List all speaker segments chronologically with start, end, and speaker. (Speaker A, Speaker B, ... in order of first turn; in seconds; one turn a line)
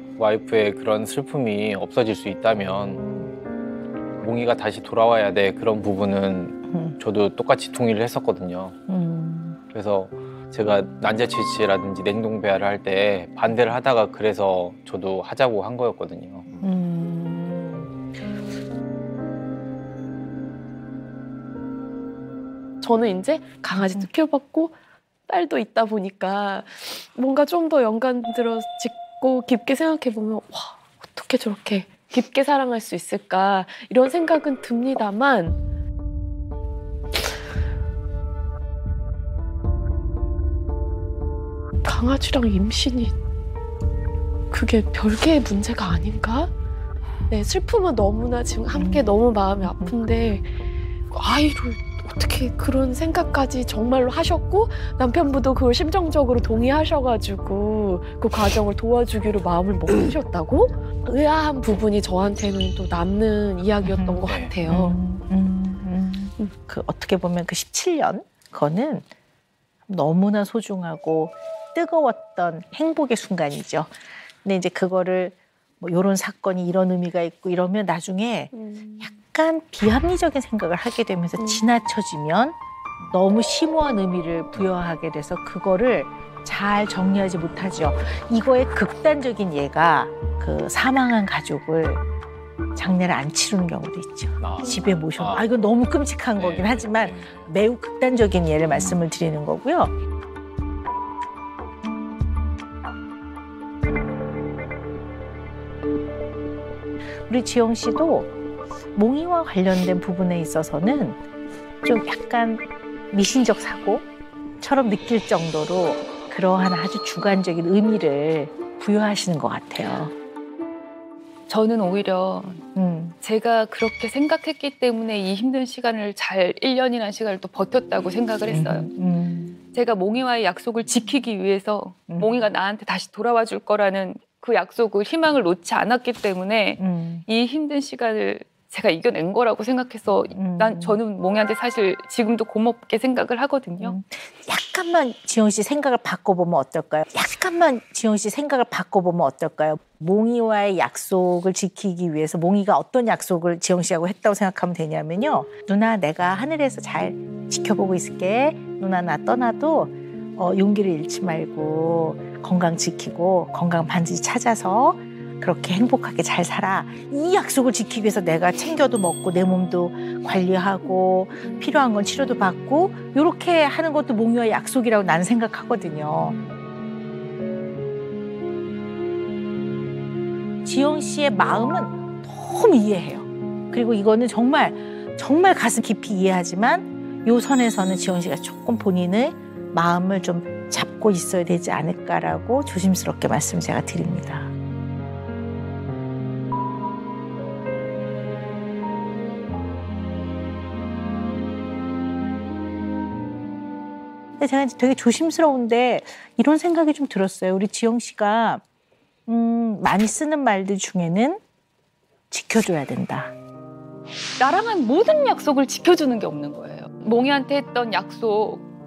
Speaker A: 0.2-3.0
Speaker A: 4.2-8.8
Speaker B: 6.7-7.0
Speaker B: 8.9-9.6
Speaker A: 9.7-16.5
Speaker B: 16.6-17.9
Speaker C: 22.8-24.7
Speaker B: 23.8-24.1
Speaker C: 25.3-35.6
Speaker C: 41.8-43.1
Speaker C: 44.5-46.5
Speaker C: 47.3-50.5
Speaker B: 48.7-49.1
Speaker B: 49.6-50.0
Speaker C: 51.1-65.0
Speaker B: 63.8-69.1
Speaker A: 64.3-64.5
Speaker B: 69.9-82.6
Speaker C: 78.5-79.0
Speaker B: 83.1-92.0
Speaker B: 92.8-99.9
Speaker A: 94.4-95.4
Speaker A: 96.4-97.5
Speaker B: 107.3-108.3
Speaker B: 109.0-111.2
Speaker B: 111.8-114.1
Speaker B: 114.6-120.1
Speaker D: 121.5-122.6
Speaker B: 122.8-123.2
Speaker D: 123.2-128.9
Speaker B: 128.5-129.6
Speaker D: 129.7-144.0
Speaker B: 132.1-132.5
Speaker B: 136.8-137.3
Speaker B: 140.3-141.0
Speaker B: 143.8-176.4
Speaker B: 180.7-194.5
Speaker B: 204.4-208.6
Speaker B: 209.3-211.4
Speaker B: 212.3-213.3
Speaker D: 214.4-218.7